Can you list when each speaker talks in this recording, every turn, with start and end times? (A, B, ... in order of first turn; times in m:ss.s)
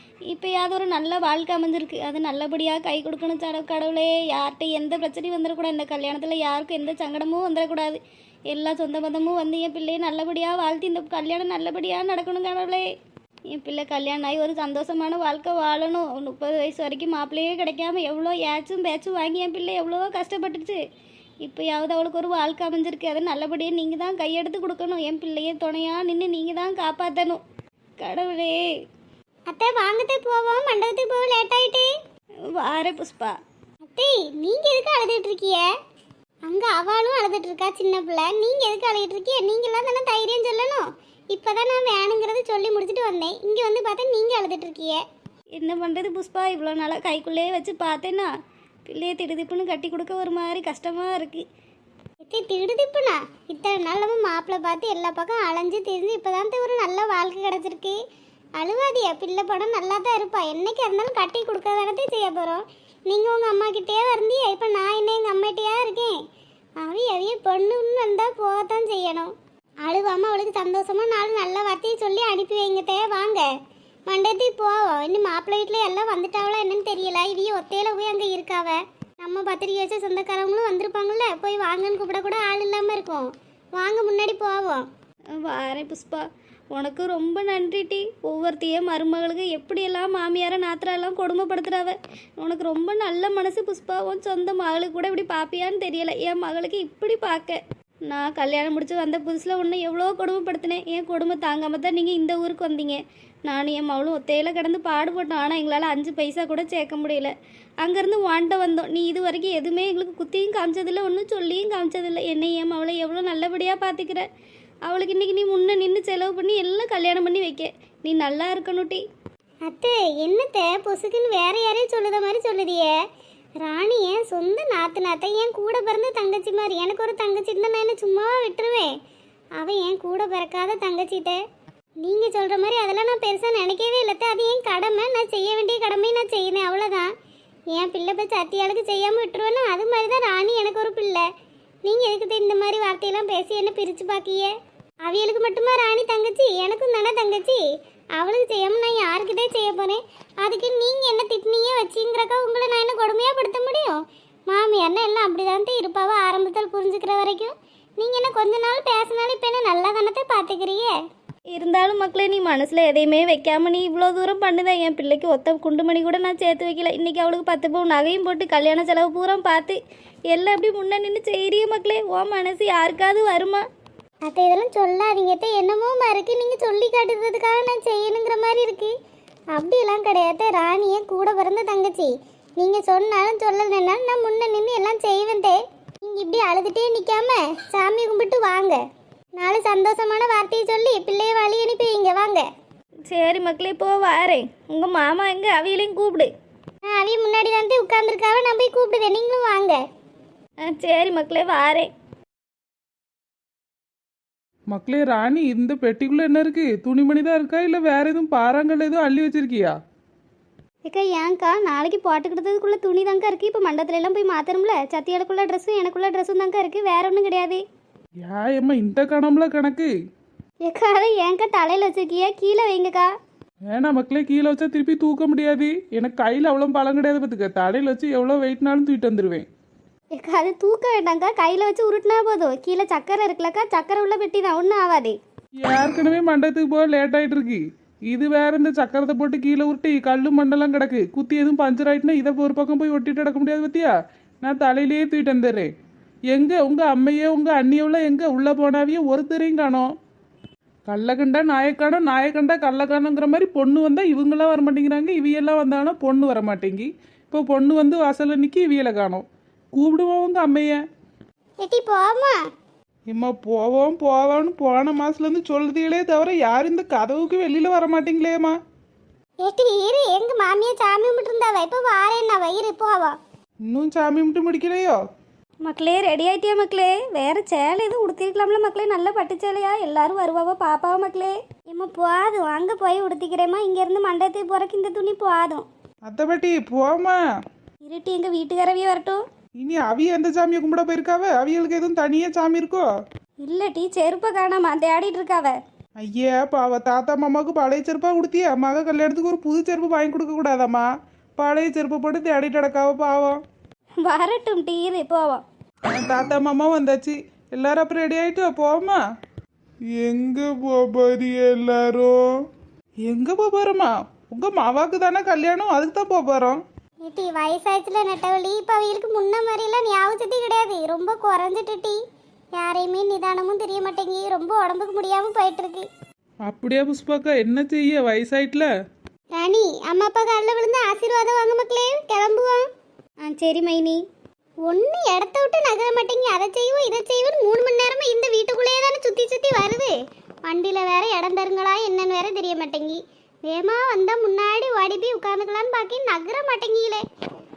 0:00.3-0:12.9 A
0:13.5-0:20.8 A
0:21.4-0:27.4 A
0:28.0-0:28.6 A
0:29.5-0:31.9 B
0:32.6-0:33.3 A
0:33.9-0:35.7 B
0:36.5-0:45.0 B
0:45.6-0:48.3 A
0:48.9-0:51.4 A
0:52.3-0:58.0 B
0:58.6-1:06.2 B
1:06.8-1:09.3 B
1:09.8-1:13.5 B
1:14.1-1:24.9 B
1:25.4-1:54.2 A
1:54.9-1:59.0 A
1:59.7-2:03.0 B
2:03.6-2:08.9 B
2:09.6-2:11.4 B
2:12.0-2:17.1 B
2:17.7-2:21.2 B
2:21.8-2:24.5 B
2:25.0-2:27.6 B
2:28.2-2:41.0 B
2:41.5-2:49.8 A
2:50.3-2:53.6 A
2:54.3-2:58.9 B
2:59.5-3:08.8 B
3:09.4-3:12.4 B
3:13.1-3:16.3 A
3:16.8-3:19.8 B
3:20.6-3:21.9 A
3:24.7-3:29.8 C
3:30.8-3:37.6 A
3:38.2-3:39.9 C
3:40.6-3:43.1 A
3:43.7-3:49.4 C
3:50.1-3:55.2 A
3:55.6-4:03.9 C
4:04.4-4:05.7 C
4:06.3-4:09.9 C
4:10.9-4:20.8 C
4:21.6-4:22.4 B
4:23.1-4:28.6 C
4:29.4-4:33.2 B
4:33.7-4:35.0 C
4:35.6-4:45.7 A
4:46.1-4:47.2 C
4:47.8-4:49.2 A
4:49.6-4:52.9 C
4:53.4-4:55.6 A
4:56.0-5:03.4 C
5:04.0-5:05.4 A
5:05.9-5:09.0 C
5:10.0-5:12.2 C
5:13.0-5:16.6 C
5:17.0-5:22.0 B
5:22.6-5:25.9 B
5:26.5-5:28.7 C
5:29.4-5:32.6 B
5:33.2-5:34.0 A
5:34.7-5:39.9 B
5:40.5-5:47.0 B